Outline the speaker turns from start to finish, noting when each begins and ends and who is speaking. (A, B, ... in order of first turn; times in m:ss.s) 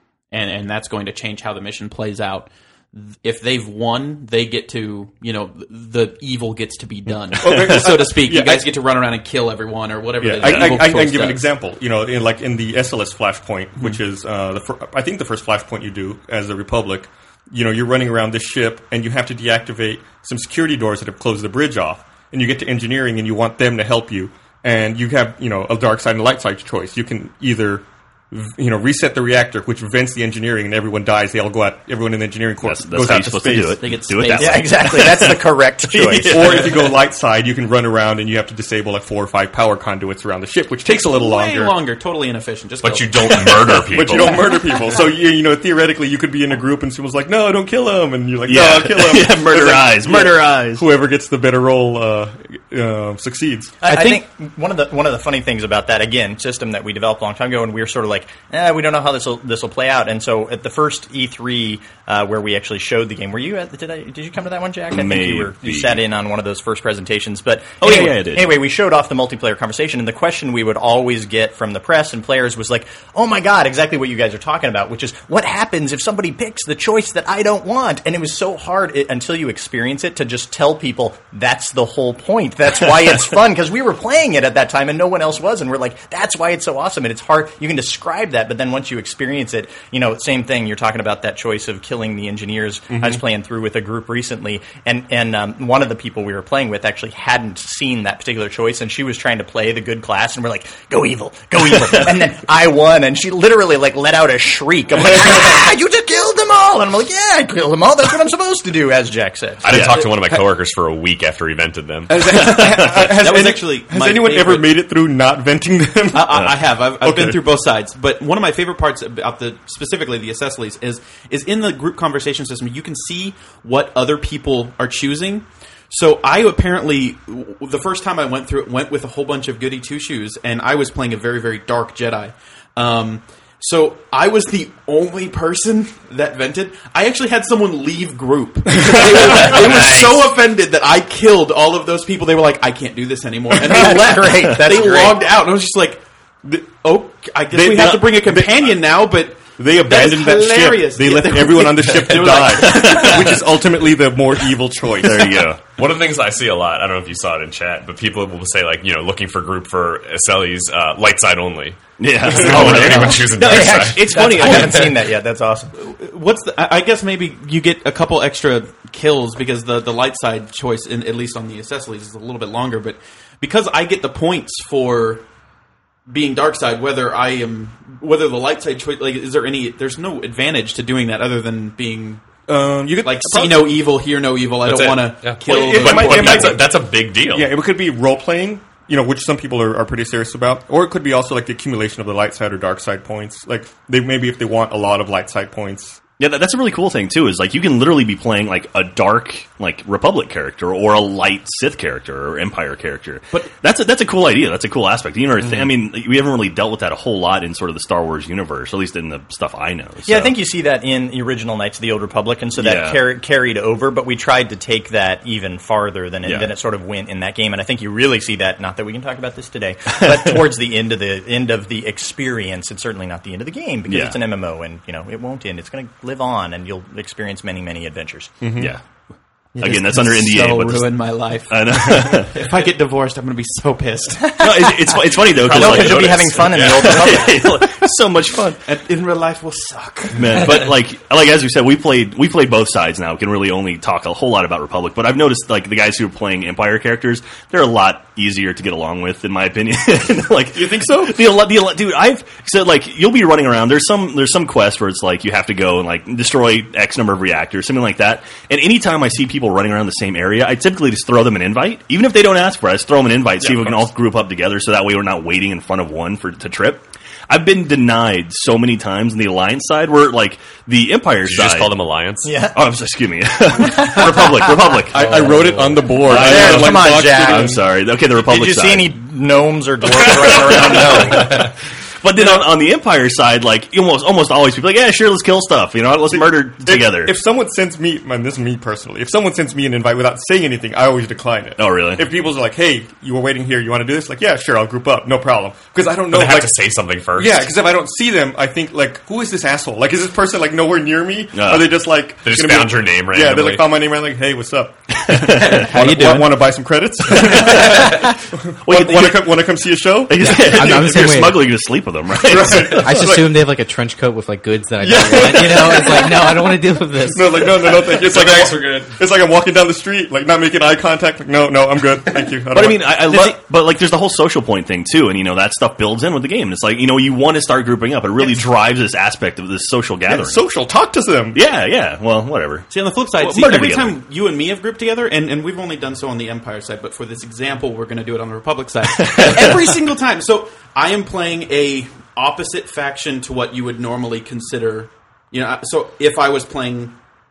0:00.3-0:11.4 A
0:07.4-0:08.7 B
0:10.2-0:33.8 B
0:10.4-0:10.7 C
0:32.6-0:36.8 C
0:33.8-0:35.0 A
0:34.4-0:36.6 D
0:36.2-0:41.7 B
0:40.8-0:43.5 A
0:42.8-0:44.5 E
0:43.9-0:53.7 B
0:48.4-0:50.8 C
0:53.8-1:49.9 D
1:04.9-1:06.0 C
1:07.8-1:08.5 C
1:32.9-1:33.2 B
1:49.6-1:52.2 E
1:49.7-1:50.1 C
1:52.1-1:57.4 B
1:52.2-1:53.1 C
1:53.0-1:54.7 A
1:56.1-2:26.0 A
2:19.5-2:20.3 D
2:23.6-2:25.2 D
2:26.7-2:33.4 A
2:27.5-2:28.7 B
2:29.6-2:35.5 B
2:32.8-2:33.2 C
2:35.0-2:35.7 C
2:35.7-2:44.9 E
2:42.0-2:44.9 C
2:42.4-2:45.7 D
2:45.8-2:55.2 A
2:56.1-3:02.2 A
3:02.5-3:03.7 B
3:03.0-3:06.6 A
3:04.6-3:07.5 E
3:05.4-3:06.7 B
3:07.3-3:16.0 B
3:16.2-3:30.3 C
3:30.0-3:48.3 D
3:32.6-3:33.0 C
3:36.2-3:36.5 C
3:43.9-3:44.2 C
3:48.4-3:48.8 B
3:48.6-3:48.8 C
3:49.6-3:54.7 A
3:49.6-3:52.4 C
3:54.4-3:58.6 C
3:55.4-3:56.3 A
3:55.4-3:57.6 D
3:55.6-3:57.0 E
3:58.6-4:00.5 A
4:00.1-4:31.8 C
4:10.5-4:11.2 B
4:31.2-4:32.3 E
4:32.2-4:32.6 D
4:32.5-4:35.4 C
4:33.8-4:34.0 D
4:34.9-4:37.6 B
4:35.2-4:35.8 F
4:35.9-4:38.9 C
4:36.1-4:37.5 D
4:38.2-4:41.4 D
4:40.0-4:47.1 C
4:46.1-4:56.5 B
4:51.6-4:52.1 C
4:56.1-4:57.4 E
4:57.1-5:10.9 B
5:01.3-5:01.8 C
5:02.2-5:03.6 E
5:05.0-5:05.7 C
5:05.3-5:06.4 A
5:07.1-5:08.0 C
5:08.6-5:09.4 C
5:10.1-5:12.8 C
5:10.2-5:11.6 F
5:12.3-5:13.4 B
5:12.5-5:17.8 F
5:14.8-5:16.5 B
5:17.1-5:23.4 B
5:17.9-5:18.9 E
5:22.5-5:30.4 C
5:30.1-5:31.4 B
5:31.3-5:34.0 C
5:32.7-5:46.9 A
5:39.0-5:39.6 C